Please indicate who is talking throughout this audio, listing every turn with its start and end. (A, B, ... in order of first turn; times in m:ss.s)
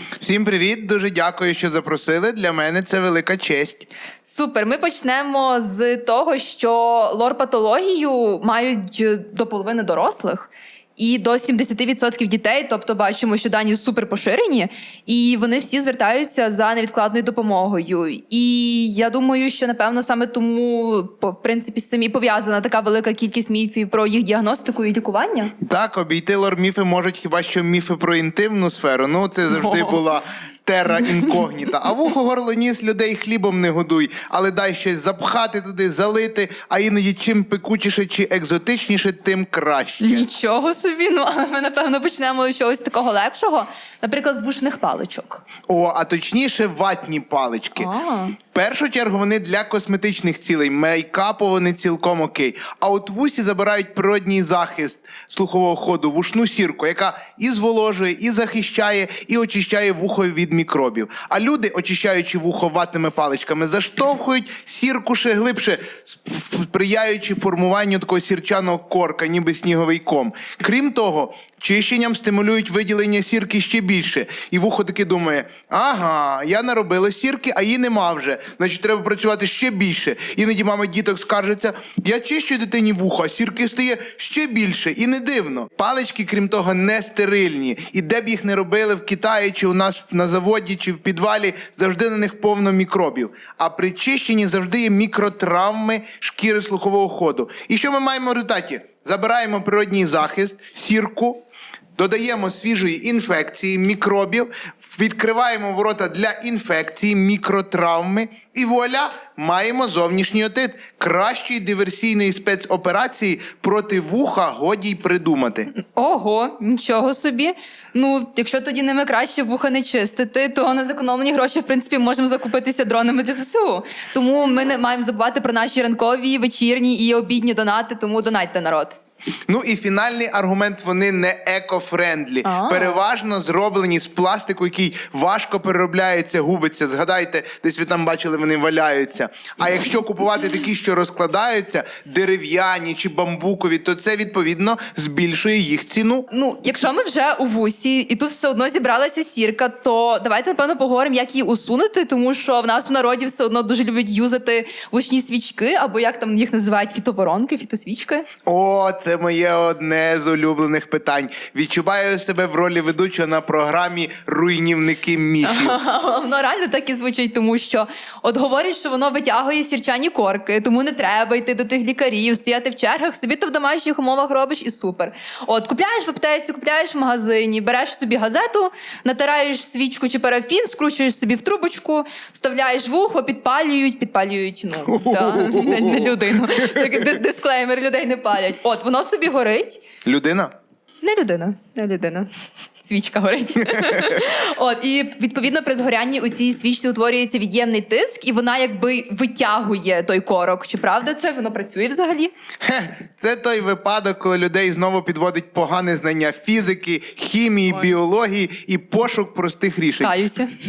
0:00.2-0:03.9 A
0:04.2-0:25.5 B
0:25.6-0:40.3 A
0:29.5-0:30.0 B
0:40.0-0:45.4 B
0:45.7-0:47.9 A
0:47.8-0:48.4 B
0:48.5-1:41.4 A
1:42.0-1:55.7 A
1:55.7-2:09.0 B
2:09.5-2:26.3 A
2:12.4-2:13.0 B
2:26.3-2:38.3 B
2:38.5-2:45.8 A
2:45.4-3:09.8 B
3:04.9-3:06.8 A
3:10.0-3:10.5 A
3:11.0-3:12.3 B
3:12.8-3:22.3 B
3:22.6-3:30.1 A
3:30.0-3:30.5 B